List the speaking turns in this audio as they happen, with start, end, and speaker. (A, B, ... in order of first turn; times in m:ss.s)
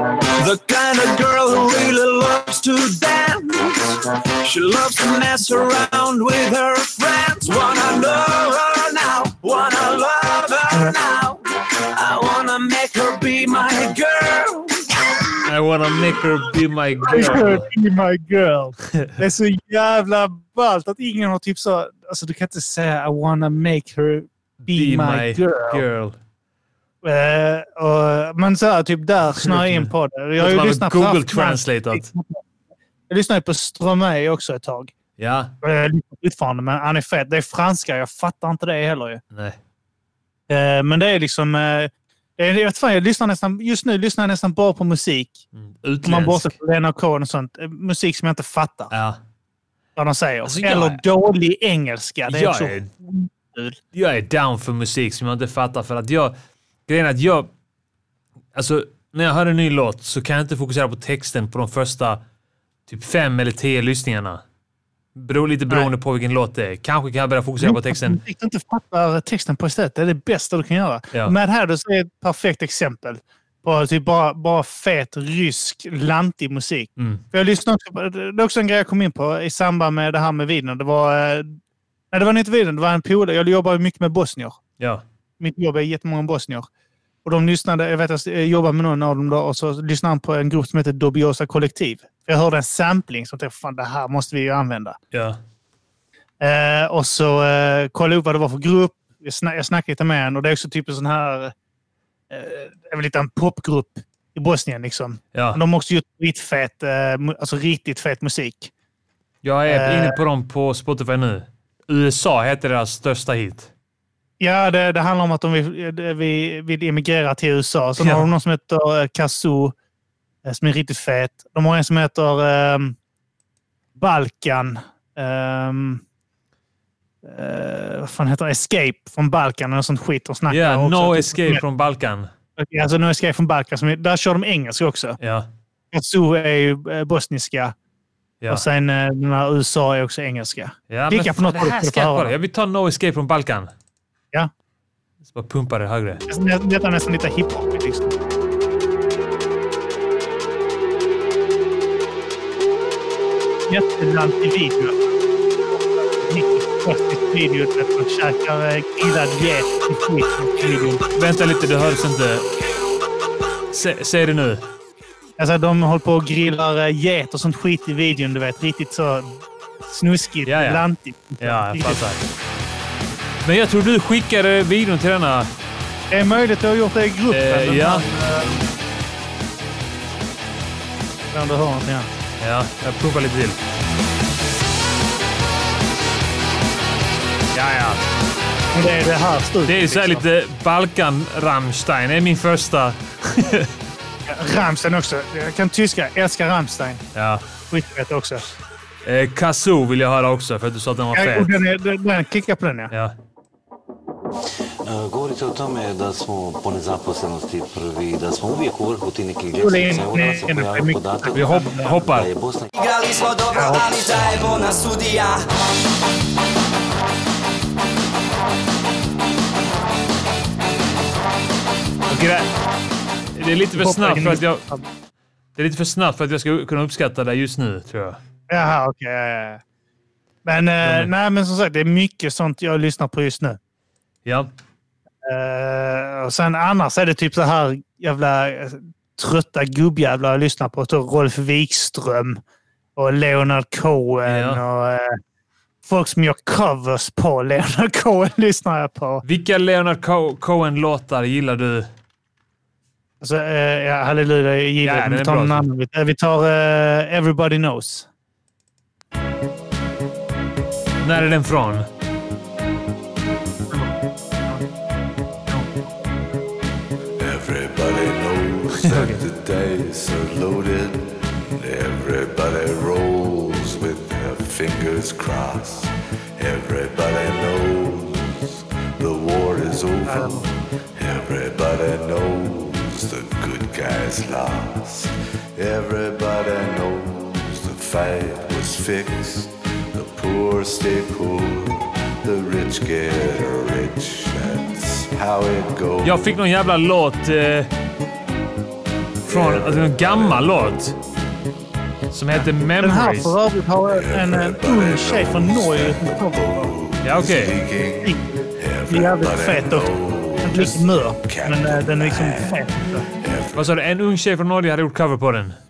0:00.4-0:15.3 A
0:15.5-0:17.7 B
0:17.0-0:25.8 C
0:18.9-0:19.2 B
0:24.6-0:26.2 B
0:27.0-0:32.4 C
0:29.3-0:32.1 B
0:33.1-0:34.9 C
0:35.2-0:35.5 B
0:35.6-0:39.2 C
0:39.3-0:39.6 B
0:40.5-0:45.4 C
0:45.5-0:46.5 B
0:46.0-0:48.9 C
0:48.9-0:49.2 B
0:50.0-0:53.8 C
0:50.4-0:51.0 B
0:52.3-0:52.9 B
0:53.9-0:56.4 B
0:56.9-0:57.5 B
0:58.6-1:02.2 B
1:02.9-1:04.4 B
1:05.2-1:08.2 B
1:07.6-1:21.6 C
1:17.0-1:17.2 B
1:22.1-1:24.6 C
1:24.8-1:25.0 B
1:25.4-1:26.7 C
1:27.2-1:35.0 C
1:35.1-1:35.4 B
1:36.4-1:41.5 C
1:42.3-1:48.7 C
1:45.3-1:45.6 B
1:49.4-1:53.7 B
1:49.7-1:50.2 C
1:54.4-1:59.8 C
1:58.0-1:58.3 B
2:00.4-2:03.0 C
2:04.0-2:06.0 C
2:07.2-2:11.6 C
2:10.5-2:12.3 B
2:12.6-2:15.2 C
2:15.2-2:15.5 B
2:15.9-2:17.8 C
2:18.5-2:22.4 C
2:20.9-2:23.7 B
2:25.3-2:26.2 B
2:26.3-2:28.2 C
2:33.7-2:41.0 C
2:41.1-2:42.5 B
2:43.7-2:44.6 B
2:45.4-2:52.0 C
2:50.5-2:50.8 B
2:51.4-2:52.2 B
2:53.4-2:55.5 B
2:56.1-2:58.6 C
2:57.3-2:58.1 B
3:01.3-3:02.1 C
3:02.4-3:03.6 B
3:07.5-3:08.0 B
3:08.7-3:10.2 C
3:09.7-3:13.7 B
3:14.3-3:17.0 C
3:17.2-3:17.4 B
3:17.7-3:18.6 C
3:19.0-3:21.6 B
3:21.1-3:22.9 C
3:24.8-3:32.7 D
3:29.6-3:32.0 C
3:31.3-3:32.3 B
3:32.8-3:35.4 E
3:33.5-3:33.9 C
3:42.1-3:42.5 B
3:43.4-3:44.6 B
3:43.8-3:44.9 C
3:45.6-3:48.2 B
3:48.5-3:49.6 C
3:50.4-3:53.6 C
3:50.8-3:51.1 B
3:54.2-3:54.5 B
3:55.2-4:02.4 C
4:03.0-4:05.2 C
4:04.3-4:04.6 B
4:05.8-4:09.2 C
4:09.2-4:11.9 B
4:13.2-4:18.1 C
4:14.8-4:15.7 B
4:21.0-4:21.9 B
4:27.2-4:56.3 F
4:28.9-4:29.2 B
4:40.0-4:40.5 C
4:56.0-4:57.7 B
4:59.2-5:00.5 F
4:59.3-5:01.0 B
5:02.1-5:03.4 B
5:02.3-5:06.7 C
5:03.9-5:14.1 F
5:07.0-5:07.6 B
5:08.9-5:13.1 C
5:13.5-5:15.6 B